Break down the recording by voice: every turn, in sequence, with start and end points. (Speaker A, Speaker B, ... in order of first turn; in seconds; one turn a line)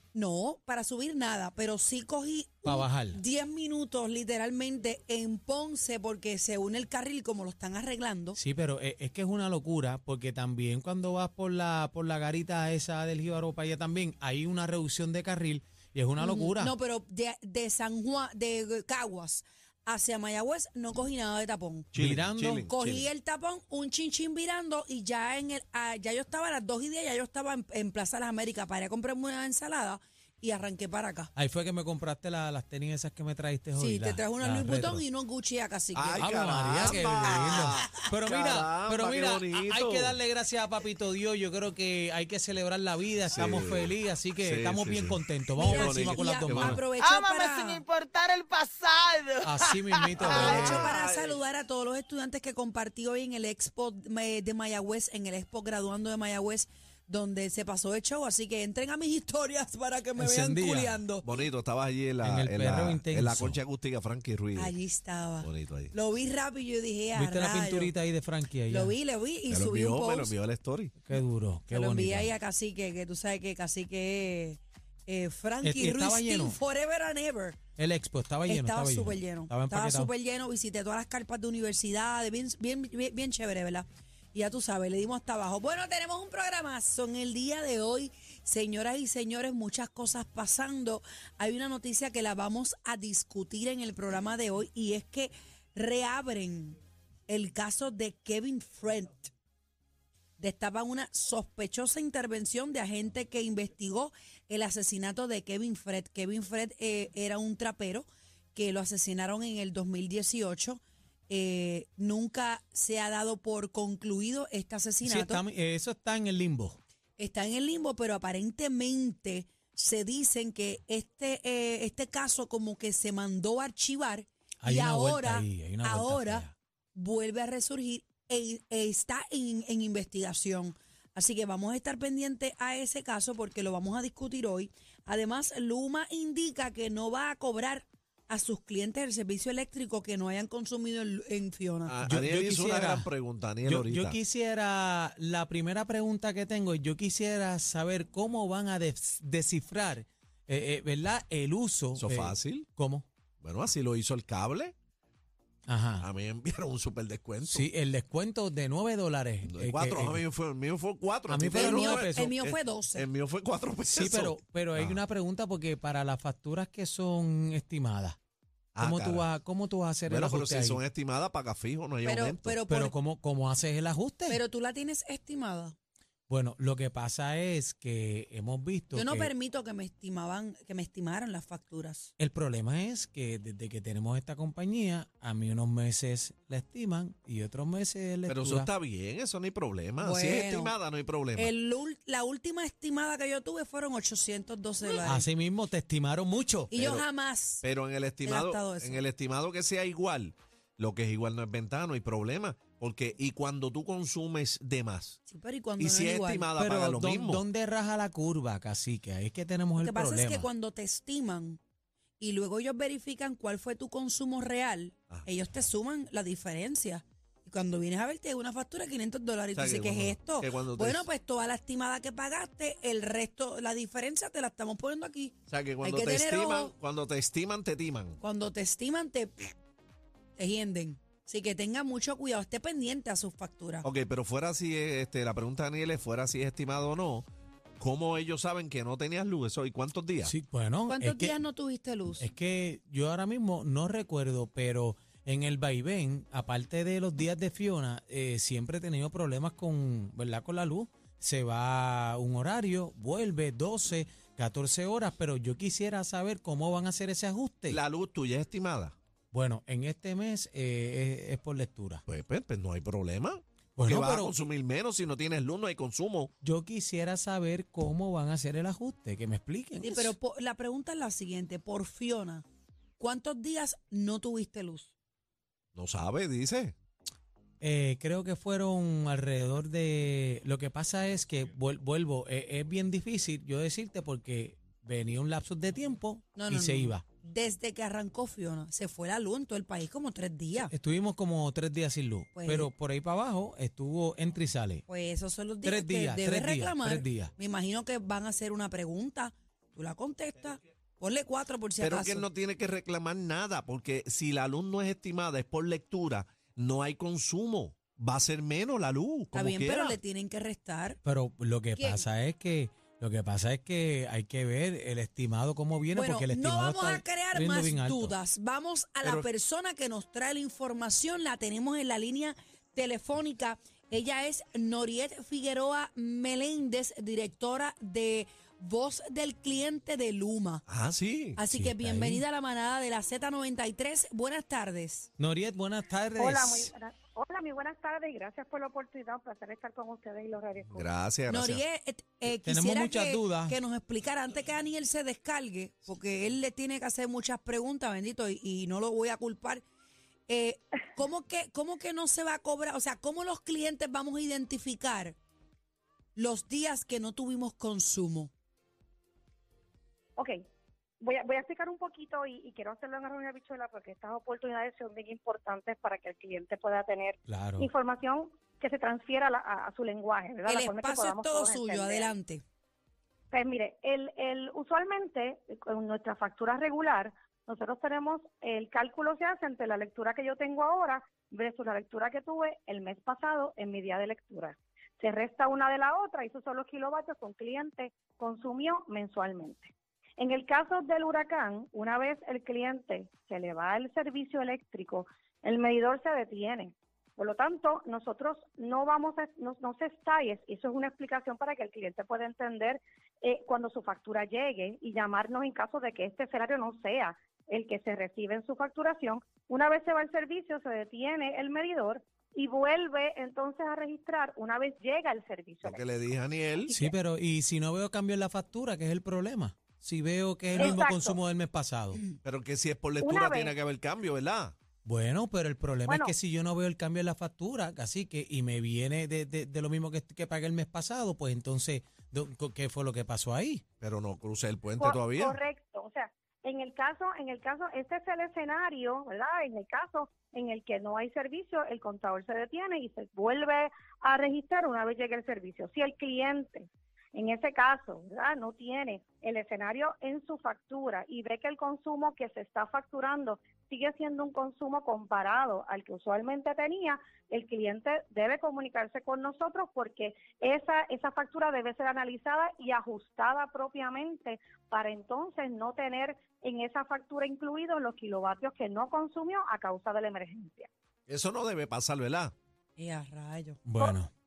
Speaker A: 0.1-8.4
Speaker B: 2.6-3.2
Speaker B: 8.3-16.7
Speaker A: 16.2-21.9
Speaker C: 21.9-23.1
Speaker B: 21.9-22.7
Speaker A: 22.7-31.3
Speaker B: 31.3-35.0
Speaker A: 33.7-36.3
Speaker C: 35.9-40.2
Speaker B: 36.1-46.8
Speaker A: 37.3-37.7
Speaker C: 43.3-43.9
Speaker C: 44.4-46.8
Speaker A: 45.5-47.9
Speaker D: 47.0-50.9
Speaker B: 49.4-50.9
Speaker C: 50.2-51.4
Speaker A: 50.2-61.3
Speaker B: 60.2-61.0
Speaker C: 61.2-64.7
Speaker B: 62.2-63.6
Speaker A: 64.5-67.9
Speaker C: 65.4-65.9
Speaker B: 67.1-69.0
Speaker A: 68.7-70.3
Speaker C: 69.5-70.9
Speaker B: 71.0-72.3
Speaker A: 71.7-77.6
Speaker B: 75.6-76.6
Speaker B: 77.8-80.1
Speaker A: 78.5-99.3
Speaker A: 100.4-115.4
Speaker B: 115.0-116.8
Speaker A: 117.2-141.9
Speaker B: 124.6-126.5
Speaker C: 141.9-144.2
Speaker B: 142.0-143.1
Speaker B: 143.6-153.1
Speaker C: 151.9-152.7
Speaker C: 153.4-154.7
Speaker B: 155.7-156.1
Speaker C: 156.0-157.7
Speaker B: 157.5-160.2
Speaker C: 159.4-165.0
Speaker B: 161.3-162.3
Speaker A: 161.5-163.1
Speaker B: 163.9-168.2
Speaker C: 168.7-169.3
Speaker B: 168.8-170.8
Speaker C: 170.1-172.6
Speaker A: 172.0-172.9
Speaker B: 172.7-174.4
Speaker A: 174.3-175.7
Speaker B: 176.3-179.3
Speaker A: 178.9-182.1
Speaker B: 182.2-188.7
Speaker C: 188.3-191.5
Speaker A: 190.0-190.8
Speaker A: 191.3-195.3
Speaker B: 195.0-196.7
Speaker A: 196.7-197.6
Speaker C: 196.8-197.0
Speaker C: 197.6-205.2
Speaker A: 198.2-199.0
Speaker A: 205.3-206.5
Speaker C: 205.8-207.4
Speaker B: 206.6-210.5
Speaker A: 209.8-211.6
Speaker A: 212.2-226.7
Speaker C: 219.5-221.1
Speaker C: 225.5-228.2
Speaker A: 228.2-229.5
Speaker A: 230.4-233.8
Speaker C: 233.8-237.2
Speaker C: 237.8-240.3
Speaker B: 240.2-241.4
Speaker A: 240.9-242.3
Speaker B: 242.2-257.8
Speaker C: 257.7-258.9
Speaker B: 259.3-262.0
Speaker C: 262.1-266.3
Speaker B: 263.8-264.3
Speaker B: 266.4-270.1
Speaker A: 269.8-272.4
Speaker A: 273.0-274.9
Speaker C: 275.7-276.7
Speaker B: 277.6-287.0
Speaker A: 286.4-290.7
Speaker B: 290.5-294.8
Speaker A: 292.3-292.7
Speaker A: 294.9-302.3
Speaker B: 295.6-297.3
Speaker C: 301.8-310.0
Speaker A: 309.3-311.0
Speaker B: 311.0-318.1
Speaker A: 311.8-312.1
Speaker A: 315.9-330.6
Speaker C: 330.7-331.4
Speaker A: 331.4-335.1
Speaker B: 331.5-332.2
Speaker B: 335.2-336.7
Speaker E: 336.2-340.9
Speaker C: 340.7-341.6
Speaker A: 341.3-349.6
Speaker B: 342.4-343.6
Speaker A: 350.3-355.2
Speaker A: 356.1-358.3
Speaker E: 361.0-372.1
Speaker B: 367.3-367.7
Speaker A: 370.4-372.4
Speaker E: 373.3-415.9
Speaker C: 415.6-416.7
Speaker E: 416.5-416.9
Speaker B: 416.7-422.0
Speaker E: 420.6-421.2
Speaker C: 422.2-424.5
Speaker E: 423.0-423.5
Speaker B: 424.8-433.6
Speaker E: 425.9-426.1
Speaker C: 433.8-435.4
Speaker E: 434.8-470.7
Speaker C: 471.1-472.3
Speaker A: 472.8-473.6
Speaker B: 473.6-474.1